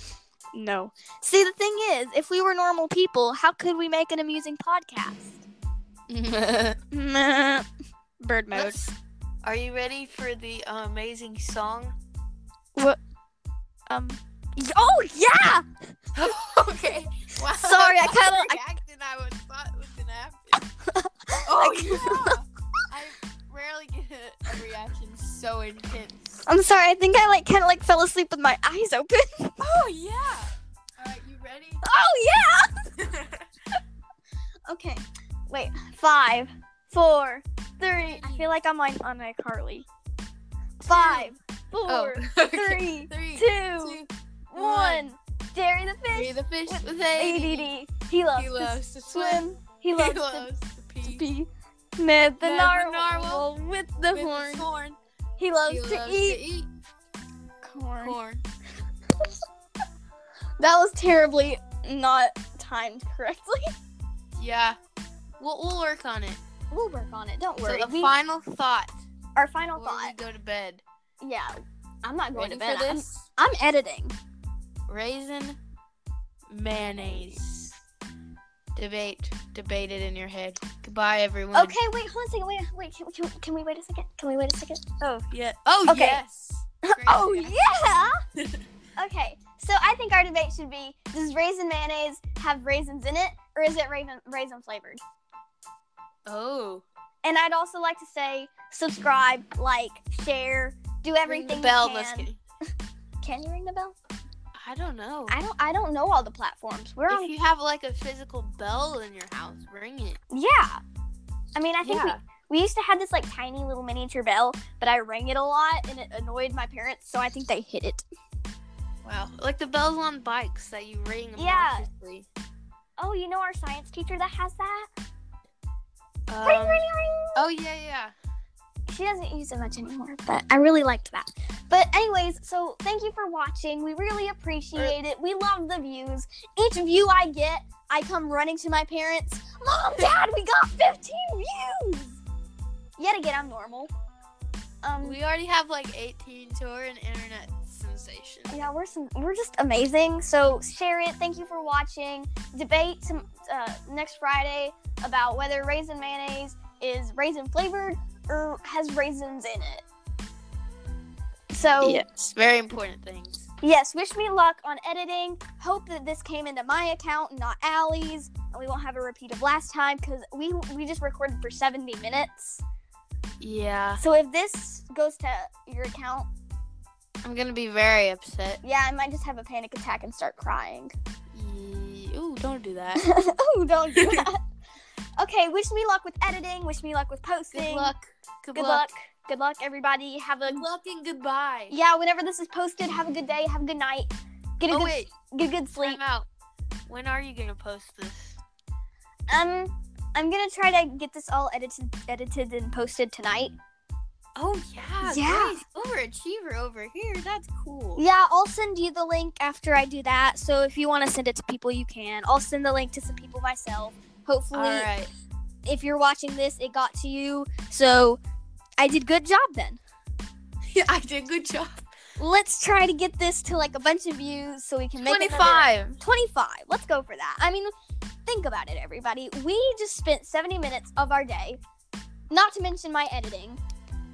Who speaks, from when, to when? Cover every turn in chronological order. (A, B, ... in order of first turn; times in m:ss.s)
0:00.5-0:05.4 A
0:06.1-0:06.8 B
0:06.9-0:07.7 A
0:08.2-0:08.8 A
0:08.5-0:12.0 B
0:13.9-0:15.6 A
0:16.2-0:20.6 B
0:17.5-0:18.6 A
0:20.9-0:22.4 A
0:21.4-0:26.4 B
0:26.5-0:29.6 A
0:29.6-0:31.8 B
0:31.8-0:32.9 A
0:33.0-0:33.8 B
0:34.7-0:39.9 A
0:38.0-0:38.5 B
0:40.8-0:44.0 A
0:40.9-0:41.3 B
0:41.9-0:45.1 B
0:44.5-0:50.5 A
0:46.1-0:47.7 B
0:48.4-0:51.2 B
0:51.0-0:54.7 A
0:52.4-0:55.0 B
0:55.4-0:56.4 A
0:55.7-0:56.7 B
0:57.6-0:58.2 A
0:58.0-0:58.4 B
1:00.6-1:03.7 A
1:04.4-1:04.8 B
1:05.4-1:06.4 B
1:06.7-1:08.2 A
1:07.6-1:09.0 B
1:09.4-1:10.1 A
1:09.8-1:10.8 B
1:11.2-1:14.1 A
1:12.4-1:13.3 B
1:14.9-1:15.6 B
1:16.5-1:17.8 B
1:17.0-1:17.4 A
1:18.8-1:21.8 B
1:21.5-1:25.3 A
1:25.3-1:27.6 B
1:25.8-1:26.2 A
1:26.8-1:28.2 A
1:28.4-1:28.6 B
1:29.0-1:35.0 A
1:36.3-1:36.8 B
1:37.2-1:42.3 A
1:41.3-1:42.4 B
1:43.2-1:44.0 A
1:44.5-1:45.4 B
1:45.3-1:47.3 A
1:47.1-1:50.2 B
1:50.3-1:50.8 A
1:51.6-1:58.0 A
1:51.8-1:52.2 B
1:59.0-2:02.3 B
2:01.4-2:01.9 A
2:03.0-2:04.9 A
2:06.3-2:06.8 B
2:06.4-2:07.4 A
2:07.4-2:08.1 B
2:08.9-2:22.2 A
2:23.0-2:23.9 A
2:24.8-2:25.2 A
2:25.0-2:28.7 B
2:28.5-2:39.9 A
2:41.5-2:42.0 A
2:41.8-2:43.5 B
2:43.6-2:52.6 A
2:53.4-2:54.0 B
2:54.0-2:56.3 A
2:57.2-2:58.6 B
2:58.6-3:00.9 A
3:01.3-3:03.1 B
3:03.0-3:04.4 A
3:03.9-3:04.3 B
3:05.2-3:07.9 A
3:07.5-3:08.9 B
3:08.5-3:10.7 A
3:10.5-3:11.8 B
3:11.7-3:16.0 A
3:14.7-3:15.1 B
3:15.8-3:16.3 B
3:16.9-3:18.4 B
3:19.3-3:23.6 A
3:24.4-3:28.0 B
3:25.0-3:25.6 A
3:28.0-3:34.9 A
3:34.5-3:35.1 B
3:35.6-3:38.2 A
3:38.8-3:39.8 A
3:40.7-3:41.8 B
3:42.2-3:47.7 A
3:45.0-3:46.0 B
3:48.3-3:51.6 A
3:52.3-3:53.6 A